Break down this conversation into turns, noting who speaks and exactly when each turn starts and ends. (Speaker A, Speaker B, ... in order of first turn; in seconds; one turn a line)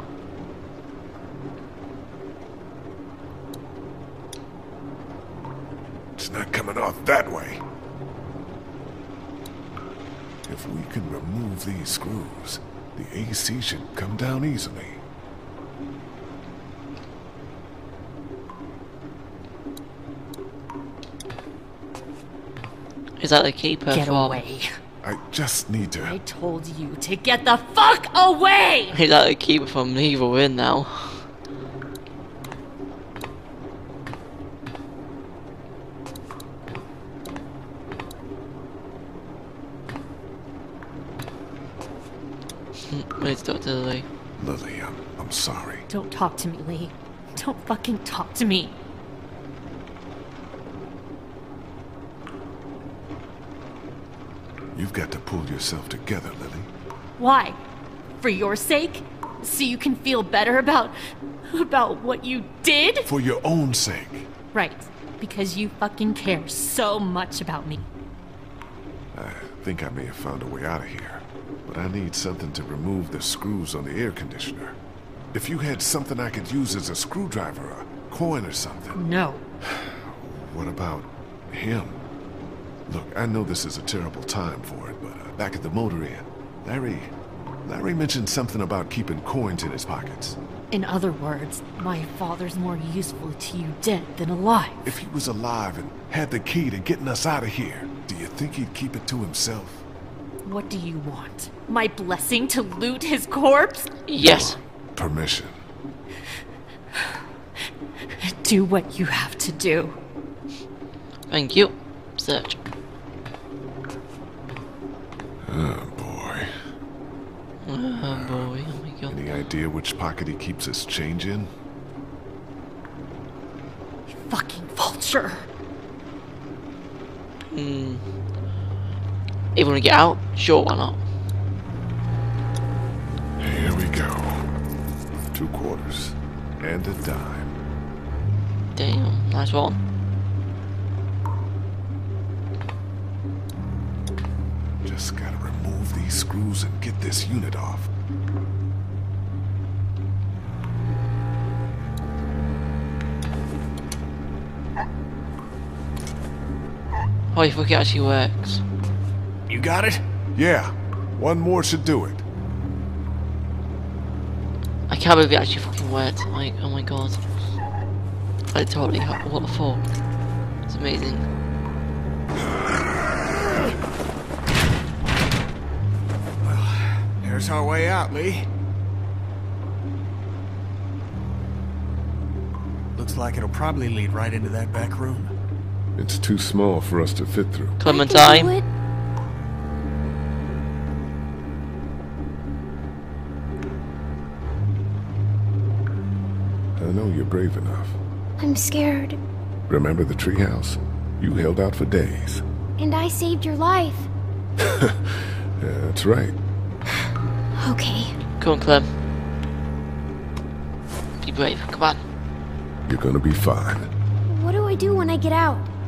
Speaker A: 6.2-7.6
Speaker A: 10.5-15.0
Speaker B: 23.2-24.4
Speaker C: 23.9-24.7
Speaker A: 25.0-26.2
Speaker C: 26.0-28.9
Speaker B: 28.9-31.2
Speaker B: 42.9-44.1
Speaker A: 44.4-45.8
Speaker C: 45.9-48.8
Speaker A: 54.7-56.7
Speaker C: 57.2-57.6
Speaker C: 58.2-61.0
Speaker C: 61.5-63.1
Speaker A: 63.0-64.3
Speaker C: 64.5-67.9
Speaker A: 69.1-74.8
Speaker A: 75.3-79.0
Speaker C: 79.0-79.4
Speaker A: 79.6-82.0
Speaker A: 82.9-87.1
Speaker A: 87.7-90.4
Speaker C: 90.7-94.8
Speaker A: 94.8-99.8
Speaker C: 100.4-103.9
Speaker B: 104.1-104.6
Speaker A: 104.2-105.6
Speaker C: 108.2-110.0
Speaker B: 111.3-112.6
Speaker A: 115.4-116.5
Speaker B: 117.6-119.2
Speaker A: 118.0-118.5
Speaker A: 119.1-121.5
Speaker C: 124.1-125.5
Speaker B: 127.5-128.0
Speaker B: 129.5-131.0
Speaker A: 133.4-134.5
Speaker A: 135.3-137.5
Speaker B: 138.7-139.8
Speaker A: 144.8-147.9
Speaker B: 157.3-158.6
Speaker D: 159.5-160.0
Speaker A: 160.3-162.2
Speaker B: 164.9-167.2
Speaker B: 168.5-169.9
Speaker B: 170.7-171.2
Speaker D: 176.4-178.4
Speaker D: 182.9-185.3
Speaker A: 186.0-187.8
Speaker B: 187.8-188.6
Speaker E: 187.8-188.7
Speaker A: 196.8-198.0
Speaker E: 198.4-199.2
Speaker A: 199.7-202.4
Speaker E: 202.8-204.1
Speaker A: 204.6-206.3
Speaker E: 207.6-208.1
Speaker B: 208.4-208.9
Speaker B: 211.2-212.0
Speaker A: 212.8-213.9
Speaker E: 214.3-215.7